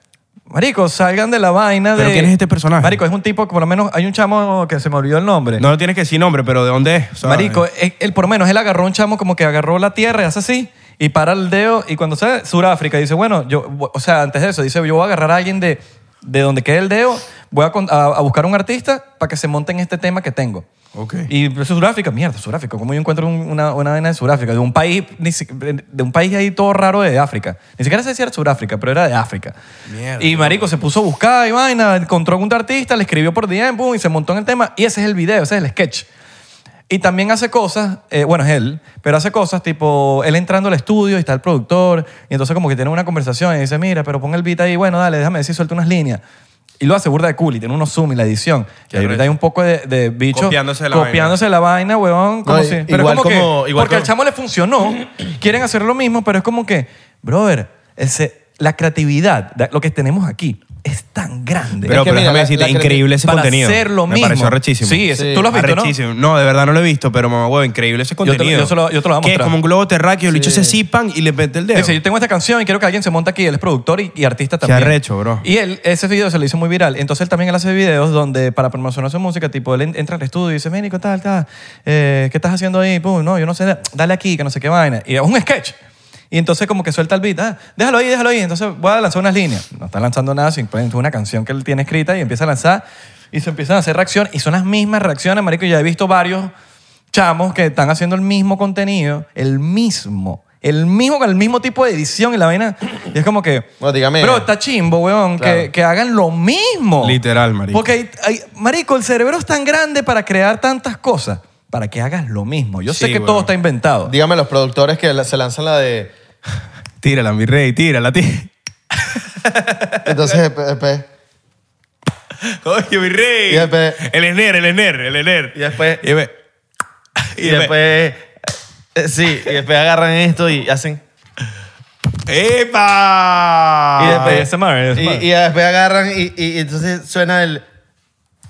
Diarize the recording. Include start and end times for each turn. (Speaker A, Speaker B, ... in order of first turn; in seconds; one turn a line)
Speaker A: 0.5-5.7
Speaker B: 1.9-3.0
Speaker B: 5.6-7.6
Speaker A: 7.2-20.7
Speaker B: 20.9-21.3
Speaker A: 21.3-29.6
Speaker B: 29.9-30.7
Speaker A: 30.2-36.1
Speaker A: 36.9-46.2
Speaker A: 46.8-62.1
Speaker B: 48.9-49.3
Speaker B: 50.3-51.4
Speaker C: 52.5-54.1
Speaker B: 61.9-72.0
Speaker C: 61.9-63.0
Speaker A: 63.2-66.0
Speaker C: 65.1-65.5
Speaker A: 68.2-69.5
Speaker C: 70.3-70.8
Speaker A: 71.7-85.8
Speaker B: 74.6-75.5
Speaker A: 86.3-96.5
Speaker A: 97.1-107.2
Speaker C: 103.8-104.5
Speaker C: 105.4-105.7
Speaker B: 107.0-107.9
Speaker A: 107.7-114.1
Speaker B: 112.9-113.5
Speaker C: 114.1-116.1
Speaker B: 117.0-120.4
Speaker C: 120.0-121.1
Speaker B: 122.5-126.3
Speaker C: 123.5-124.0
Speaker C: 125.5-126.0
Speaker B: 127.3-127.7
Speaker C: 127.4-128.3
Speaker C: 128.9-131.0
Speaker B: 132.3-134.5
Speaker A: 134.0-135.3
Speaker C: 134.0-137.6